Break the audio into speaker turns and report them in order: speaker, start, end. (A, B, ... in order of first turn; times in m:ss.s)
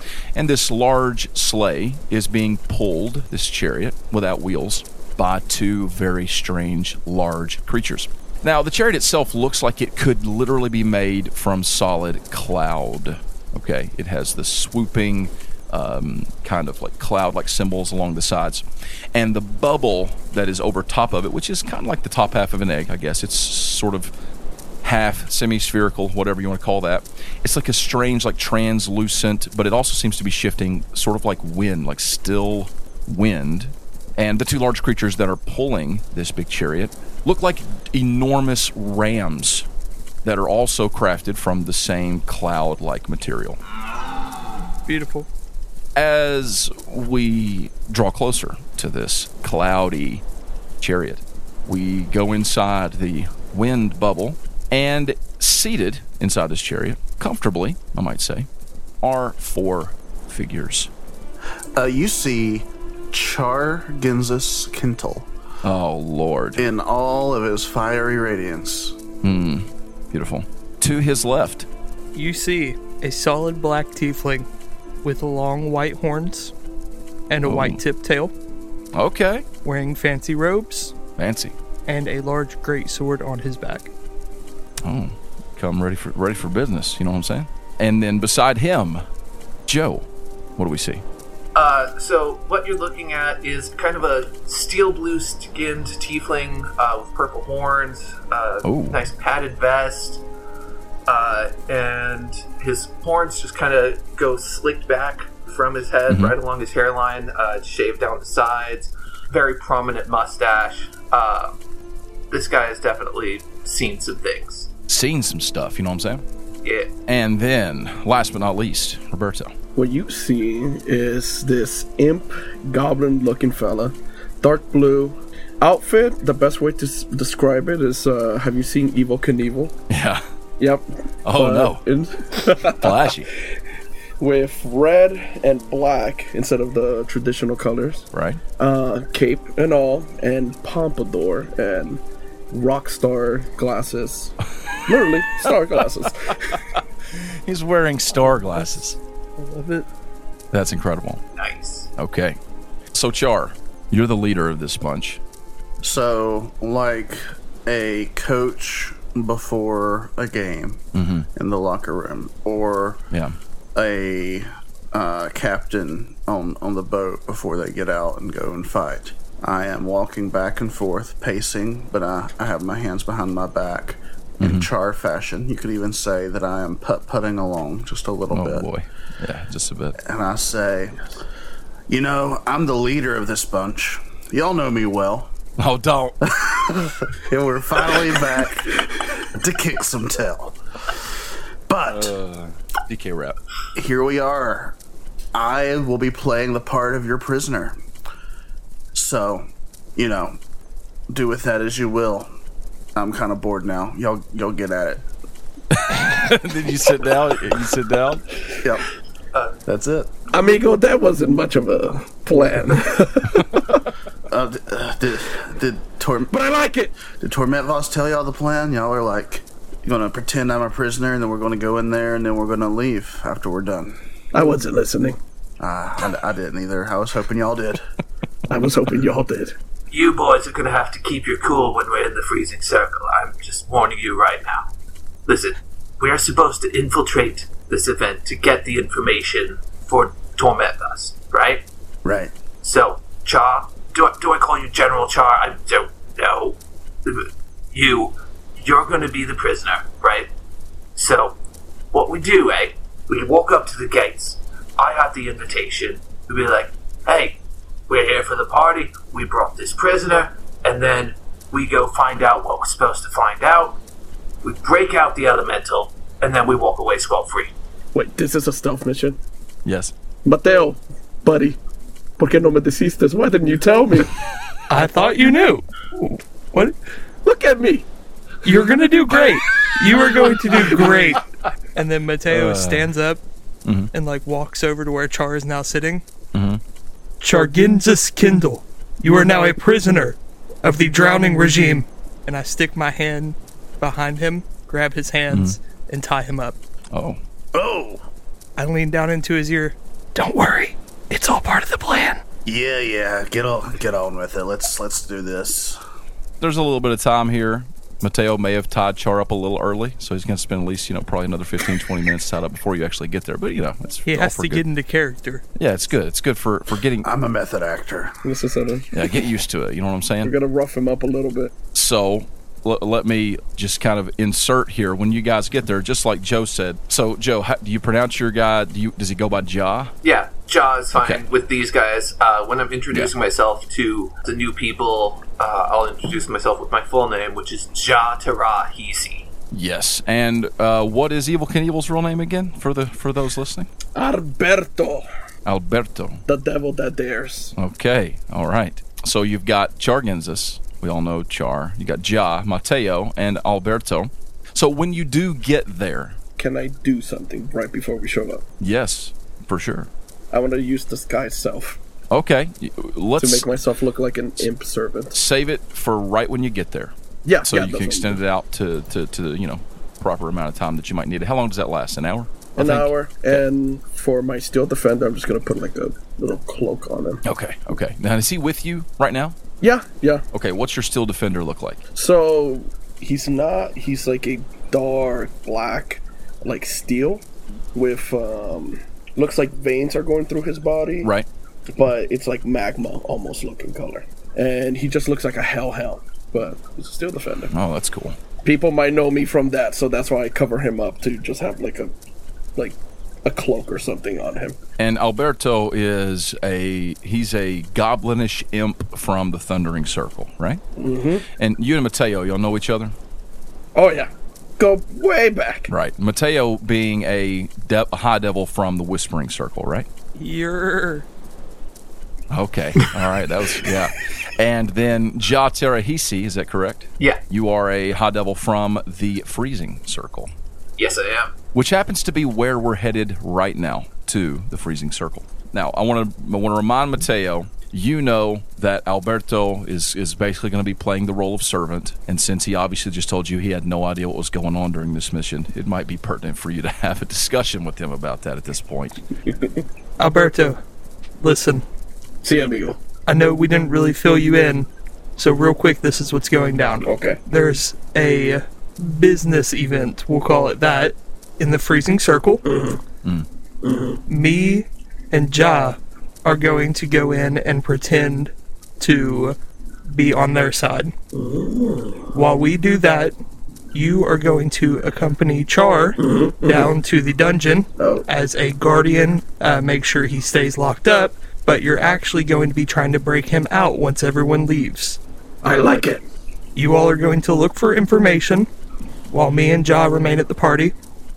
0:00.4-0:24.1 A
0:24.8-0:39.7 A
0:40.2-0:43.6 A
0:44.9-0:45.3 B
0:46.0-0:50.2 A
0:50.8-0:58.5 A
0:59.0-1:00.9 A
1:01.8-1:05.3 C
1:05.6-1:06.6 A
1:06.6-1:09.0 C
1:09.2-1:11.7 A
1:12.2-1:14.5 B
1:15.0-1:16.5 B
1:17.3-1:18.3 B
1:17.5-1:17.8 A
1:18.9-1:19.5 A
1:19.6-1:21.0 B
1:21.2-1:21.6 A
1:21.9-1:23.9 B
1:24.8-1:29.0 A
1:29.7-1:31.0 A
1:31.6-1:40.2 D
1:38.6-1:39.0 A
1:41.1-1:51.6 D
1:46.1-1:46.4 A
1:52.3-1:54.7 D
1:54.9-1:56.2 A
1:56.6-1:56.9 D
1:57.1-1:59.5 A
1:59.8-2:09.8 E
2:09.9-2:10.2 A
2:10.6-2:13.4 E
2:11.2-2:11.8 A
2:12.8-2:13.3 A
2:14.2-2:18.1 E
2:18.1-2:18.4 A
2:18.6-2:24.4 E
2:24.9-2:26.6 E
2:27.1-2:29.0 A
2:29.4-2:29.9 B
2:30.5-2:31.2 A
2:31.4-2:31.9 D
2:32.0-2:32.4 A
2:32.9-2:35.2 A
2:35.8-2:40.8 C
2:40.9-2:41.3 A
2:41.4-2:43.0 C
2:43.8-2:58.7 C
2:54.4-2:54.7 A
2:58.3-3:00.0 A
3:00.0-3:01.0 C
3:01.9-3:05.3 C
3:05.6-3:06.2 A
3:06.2-3:11.0 C
3:11.7-3:12.1 C
3:11.9-3:13.4 A
3:13.8-3:14.8 C
3:15.3-3:17.8 C
3:18.9-3:20.4 C
3:21.1-3:22.3 C
3:23.0-3:25.0 C
3:25.7-3:28.3 A
3:29.3-3:29.6 D
3:29.7-3:30.1 C
3:30.3-3:33.8 E
3:34.3-3:36.3 C
3:36.3-3:36.9 E
3:37.1-3:44.0 C
3:44.3-3:45.2 E
3:45.6-3:47.8 C
3:48.5-3:49.6 E
3:49.9-3:54.7 D
3:55.3-4:01.6 D
4:02.0-4:02.3 C
4:02.6-4:10.3 D
4:11.0-4:11.4 D
4:11.9-4:23.8 D
4:24.4-4:27.5 D
4:27.9-4:29.2 E
4:29.6-4:29.9 A
4:30.2-4:31.6 E
4:32.2-4:34.1 E
4:34.7-4:36.8 B
4:37.2-4:37.9 E
4:38.4-4:43.2 B
4:42.3-4:42.9 A
4:43.6-4:43.9 A
4:43.9-4:46.0 B
4:46.3-4:46.6 A
4:47.2-4:56.6 B
4:55.3-4:55.6 A
4:56.9-4:57.2 A
4:57.5-4:58.0 C
4:58.6-5:02.2 B
5:02.4-5:05.8 C
5:06.4-5:14.6 A
5:14.0-5:15.4 B
5:15.6-5:17.1 A
5:17.0-5:18.2 C
5:18.2-5:19.2 E
5:18.9-5:20.4 A
5:20.2-5:21.5 E
5:21.7-5:29.9 A
5:30.0-5:39.3 D
5:30.9-5:31.2 A
5:39.5-5:43.7 A
5:44.0-5:45.1 E
5:45.5-5:46.2 A
5:46.3-5:47.5 E
5:47.6-5:56.2 A
5:56.4-5:58.4 E
5:58.6-5:59.9 A
6:00.3-6:01.8 E
6:02.1-6:03.6 A
6:03.2-6:05.2 E
6:05.1-6:06.9 A
6:07.2-6:08.2 E
6:07.5-6:13.4 A
6:12.6-6:17.2 E
6:17.2-6:19.4 A
6:19.6-6:20.2 E
6:20.3-6:21.8 A
6:22.0-6:31.1 E
6:31.7-6:37.5 E
6:37.5-6:38.2 A
6:38.4-6:41.9 E
6:42.6-6:44.6 E
6:44.8-6:50.6 A
6:50.8-6:51.3 E
6:51.4-6:53.0 A
6:53.8-6:55.7 E
6:55.7-6:59.9 A
7:00.2-7:01.1 B
7:02.3-7:10.3 A
7:10.8-7:11.3 D
7:11.5-7:29.0 A
7:30.0-7:30.6 B
7:31.2-7:31.6 B
7:32.2-7:32.8 E
7:33.1-7:42.4 B
7:36.8-7:37.2 E
7:42.5-7:42.8 E
7:43.6-7:44.0 E
7:44.1-7:50.9 B
7:51.1-7:52.1 E
7:52.1-7:53.2 B
7:53.7-8:05.0 B
7:56.0-7:56.6 E
7:57.8-7:58.0 E
8:05.4-8:06.0 E
8:06.6-8:08.5 B
8:09.1-8:10.7 B